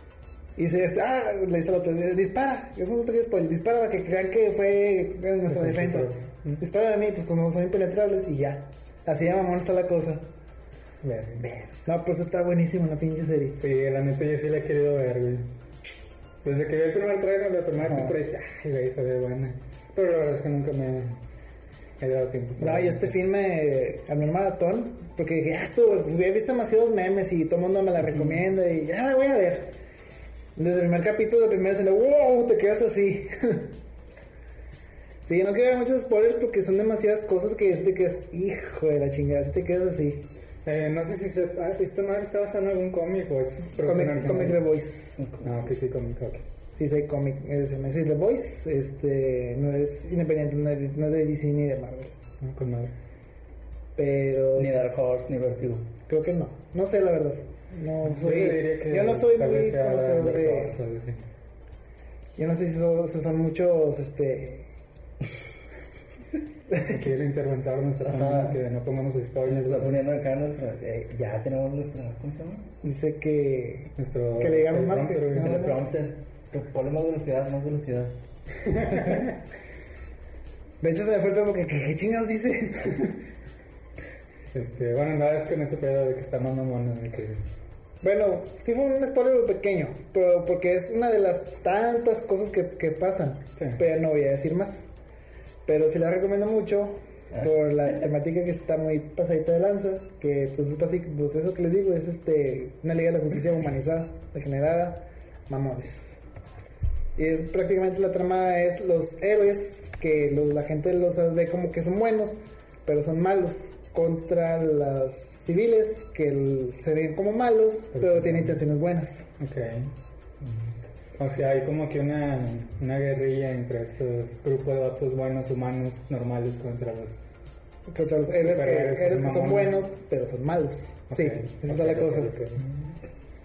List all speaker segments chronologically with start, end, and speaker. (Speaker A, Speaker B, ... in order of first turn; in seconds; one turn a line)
Speaker A: 0.6-10.2
Speaker B: 5.5-6.6
Speaker B: 11.0-11.5
Speaker C: 11.4-11.7
Speaker A: 11.9-13.6
Speaker B: 13.6-15.5
Speaker B: 16.4-21.2
Speaker C: 17.8-18.1
Speaker B: 22.0-23.1
Speaker A: 22.6-29.8
Speaker A: 30.6-33.7
Speaker A: 35.3-40.3
Speaker B: 40.6-44.6
Speaker A: 43.8-45.2
Speaker C: 45.2-45.5
Speaker B: 45.4-46.4
Speaker A: 46.8-52.1
Speaker B: 52.4-52.9
Speaker A: 54.0-54.8
Speaker C: 54.6-55.9
Speaker A: 56.1-60.8
Speaker B: 58.0-61.2
Speaker A: 62.4-64.7
Speaker B: 66.8-70.0
Speaker C: 68.1-68.6
Speaker C: 69.5-72.7
Speaker A: 72.8-75.8
Speaker B: 74.0-75.7
Speaker C: 75.3-78.2
Speaker B: 78.6-79.3
Speaker A: 80.8-83.2
Speaker B: 84.5-87.4
Speaker A: 88.0-94.8
Speaker A: 95.7-106.2
Speaker A: 107.2-119.2
Speaker B: 118.0-118.6
Speaker B: 119.4-119.9
Speaker B: 121.2-127.3
Speaker A: 127.9-132.3
Speaker B: 128.3-129.8
Speaker B: 131.1-132.7